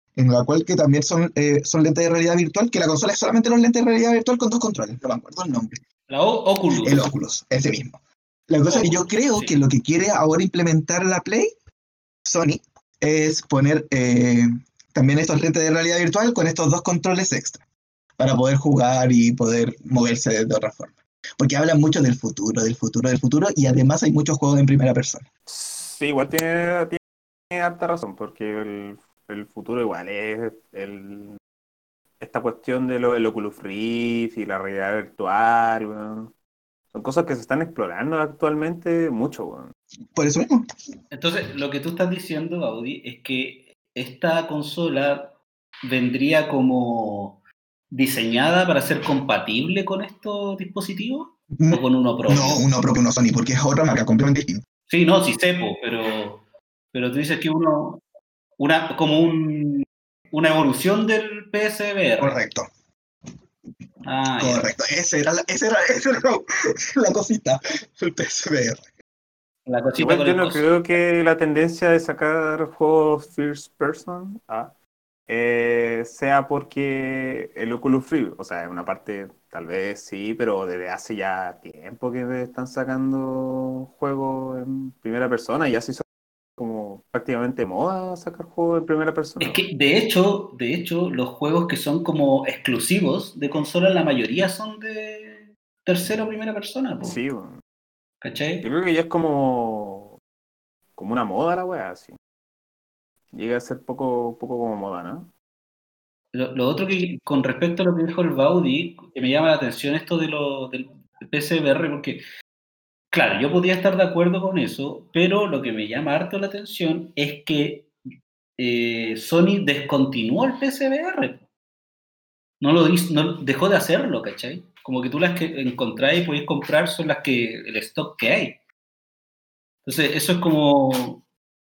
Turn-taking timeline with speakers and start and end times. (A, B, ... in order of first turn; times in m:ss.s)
0:00.2-0:05.8 A
0:06.1-0:07.0 B
0:06.8-0:08.0 A
0:08.5-0:11.5 A
0:08.6-0:09.6 B
0:12.2-0:17.6 A
0:18.2-0:25.2 A
0:25.4-0:27.0 C
0:27.5-0:31.4 C
0:32.2-0:36.3 C
0:36.9-0:39.7 C
0:40.1-0:40.7 A
0:41.1-0:47.4 B
0:47.9-0:52.6 B
0:51.6-0:54.6 A
0:54.9-0:58.0 B
0:58.6-1:02.4 B
1:02.2-1:02.7 A
1:04.0-1:04.7 B
1:04.4-1:08.8 A
1:09.6-1:10.7 B
1:10.0-1:14.7 C
1:15.3-1:26.0 C
1:26.6-1:29.6 C
1:29.4-1:37.2 B
1:37.0-1:37.6 C
1:38.2-1:38.6 B
1:38.6-1:40.2 C
1:41.0-1:42.2 C
1:43.3-1:45.3 C
1:46.3-1:52.2 B
1:53.1-1:57.9 B
1:58.6-2:01.5 B
2:02.6-2:08.6 B
2:09.8-2:11.2 B